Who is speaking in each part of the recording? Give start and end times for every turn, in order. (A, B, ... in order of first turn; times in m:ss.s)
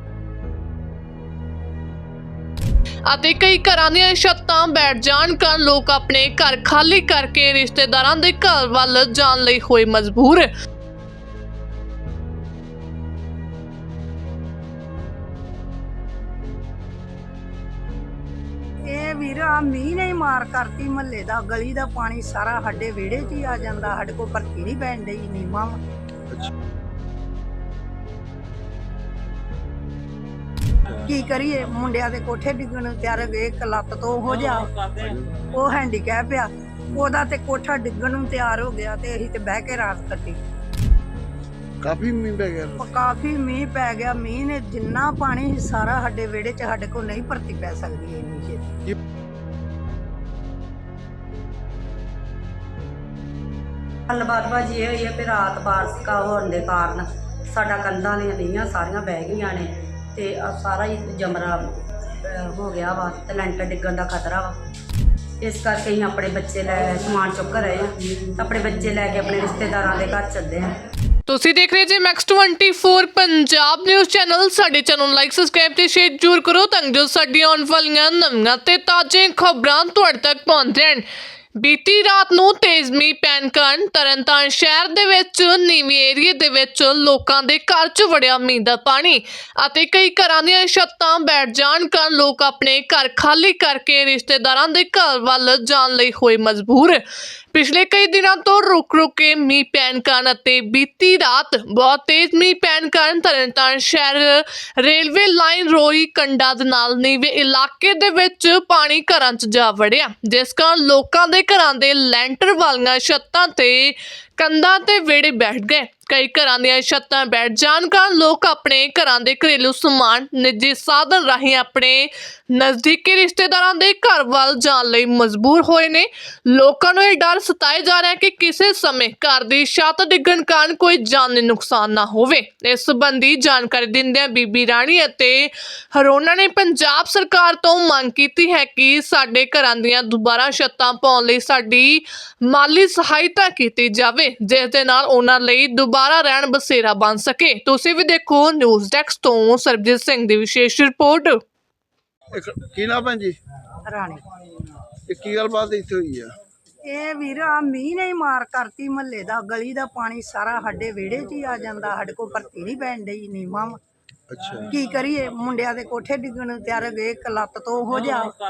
0:03.0-0:10.5 A
0:18.9-0:25.8 B
0:31.0-0:34.7 B
0:35.0-0:35.3 C
0:35.4-0:40.4 B
0:41.8-0:42.8 C
0:42.8-0:48.7 B
0:54.1-1:01.7 D
1:02.2-1:04.5 D
1:05.4-1:10.7 D
1:11.3-1:21.0 A
1:21.6-1:37.0 A
1:37.5-2:31.4 A
2:32.3-2:33.4 C
2:33.9-2:34.2 B
2:35.0-2:36.3 C
2:36.8-2:43.8 B
2:44.3-2:44.7 C
2:44.7-2:48.4 B